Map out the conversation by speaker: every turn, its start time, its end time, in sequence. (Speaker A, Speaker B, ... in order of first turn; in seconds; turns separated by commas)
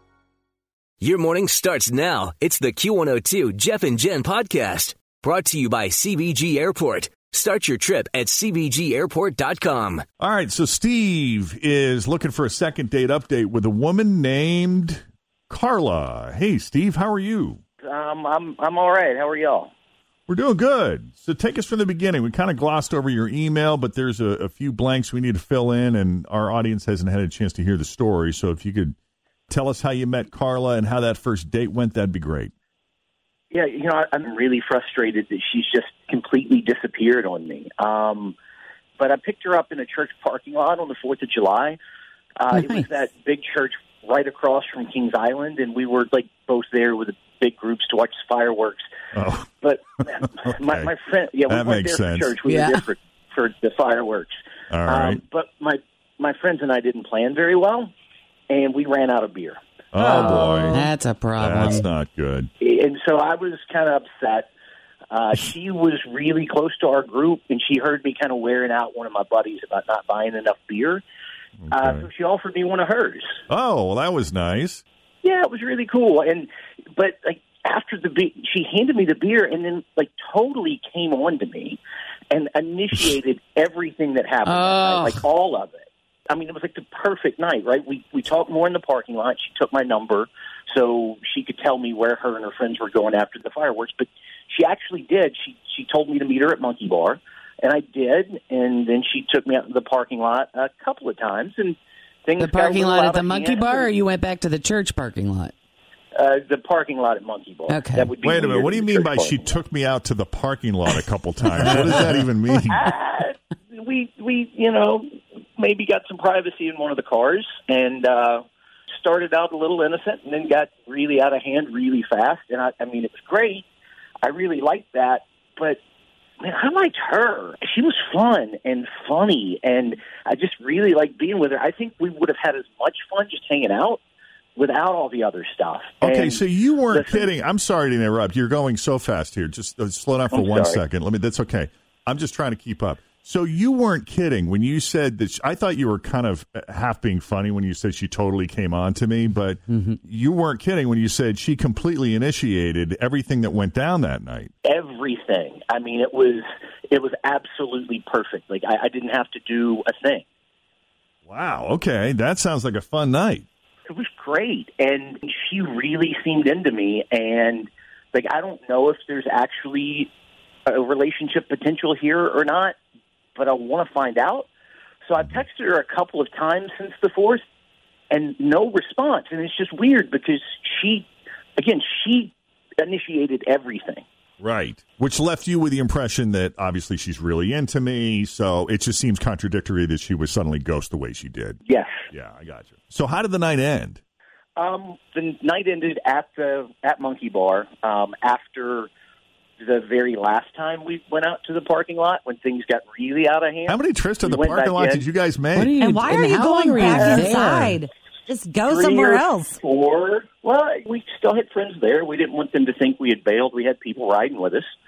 Speaker A: 1.0-10.0, Speaker B: 10.2-17.6, Speaker C: 17.8-19.7, Speaker B: 20.3-28.9, Speaker B: 29.5-32.5, Speaker C: 33.5-38.4, Speaker C: 39.0-41.8, Speaker C: 42.4-48.8, Speaker D: 42.5-42.9, Speaker B: 49.1-49.5, Speaker C: 49.6-54.3, Speaker B: 50.1-50.9, Speaker B: 51.5-52.4, Speaker D: 52.4-52.9, Speaker B: 54.7-55.2, Speaker C: 54.9-57.9, Speaker C: 58.5-59.6, Speaker B: 59.9-60.8, Speaker D: 60.0-61.9, Speaker B: 61.4-62.5, Speaker C: 62.6-64.5, Speaker C: 65.1-71.0, Speaker B: 71.6-72.1, Speaker C: 71.7-73.4, Speaker B: 73.5-74.8, Speaker C: 75.2-81.8, Speaker C: 82.3-103.9, Speaker D: 84.4-85.2, Speaker D: 102.4-105.5, Speaker C: 106.1-109.6, Speaker D: 107.7-108.2, Speaker B: 108.2-112.8, Speaker C: 112.7-118.4, Speaker C: 118.9-123.6, Speaker C: 124.2-125.8, Speaker C: 126.4-134.0, Speaker C: 134.6-137.3, Speaker B: 136.0-154.5, Speaker C: 140.3-140.8, Speaker C: 154.6-160.2, Speaker B: 161.2-163.4, Speaker C: 163.9-170.1, Speaker C: 170.7-172.7, Speaker C: 173.3-174.5, Speaker C: 175.0-177.4, Speaker C: 178.1-184.0, Speaker B: 184.4-191.6, Speaker C: 191.7-191.9, Speaker B: 192.1-194.0, Speaker C: 194.6-198.9, Speaker C: 199.6-205.1, Speaker B: 203.7-205.8, Speaker D: 205.5-207.8, Speaker E: 205.8-209.6, Speaker B: 207.3-207.7, Speaker C: 208.7-214.7